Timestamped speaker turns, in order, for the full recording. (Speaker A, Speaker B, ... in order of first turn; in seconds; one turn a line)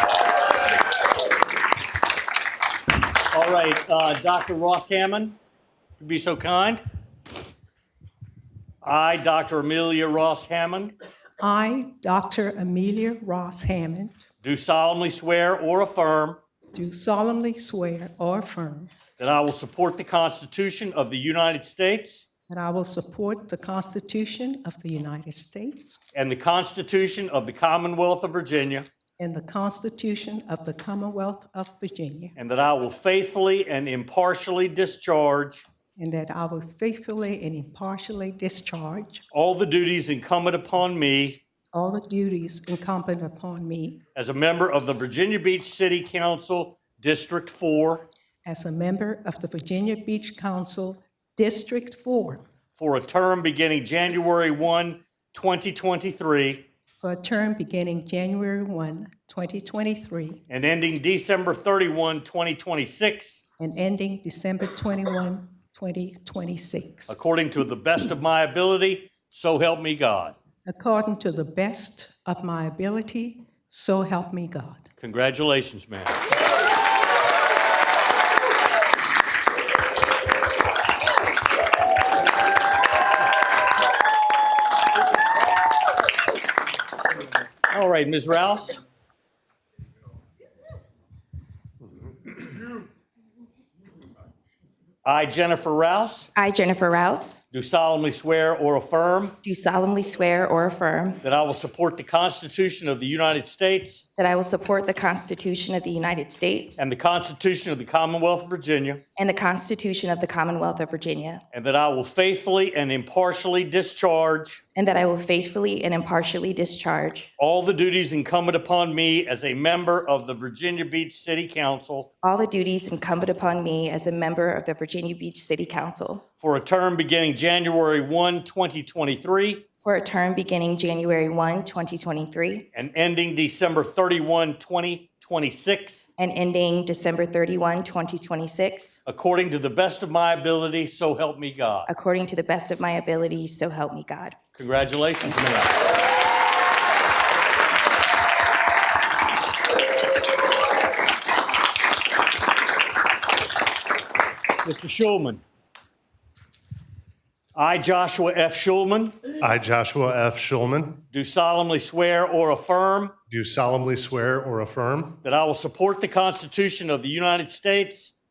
Speaker A: 3.3-5.4
Speaker A: 6.0-6.8
Speaker A: 8.8-10.9
Speaker B: 11.4-14.2
Speaker A: 14.4-16.4
Speaker B: 16.7-18.9
Speaker A: 19.2-22.2
Speaker B: 22.5-26.0
Speaker A: 26.1-28.9
Speaker B: 29.2-32.3
Speaker A: 32.4-35.6
Speaker B: 36.0-39.2
Speaker A: 39.3-41.4
Speaker B: 41.7-44.0
Speaker A: 44.1-48.1
Speaker B: 48.4-52.4
Speaker A: 52.7-56.6
Speaker B: 57.0-60.4
Speaker A: 60.5-63.4
Speaker B: 63.6-67.2
Speaker A: 67.1-70.3
Speaker B: 70.7-74.9
Speaker A: 75.0-76.2
Speaker A: 87.7-88.8
Speaker A: 95.0-96.3
Speaker C: 96.3-97.4
Speaker A: 97.5-99.4
Speaker C: 99.4-101.2
Speaker A: 101.2-104.0
Speaker C: 104.2-106.8
Speaker A: 106.8-109.0
Speaker C: 109.2-111.4
Speaker A: 111.5-114.6
Speaker C: 114.7-117.3
Speaker A: 117.4-122.1
Speaker C: 122.2-126.2
Speaker A: 126.4-129.7
Speaker C: 129.8-132.7
Speaker A: 132.7-136.1
Speaker C: 136.2-139.0
Speaker A: 139.1-141.9
Speaker C: 141.9-144.3
Speaker A: 144.5-145.7
Speaker A: 154.6-155.4
Speaker A: 157.5-159.2
Speaker D: 159.4-161.0
Speaker A: 161.1-163.2
Speaker D: 163.3-165.2
Speaker A: 165.2-168.1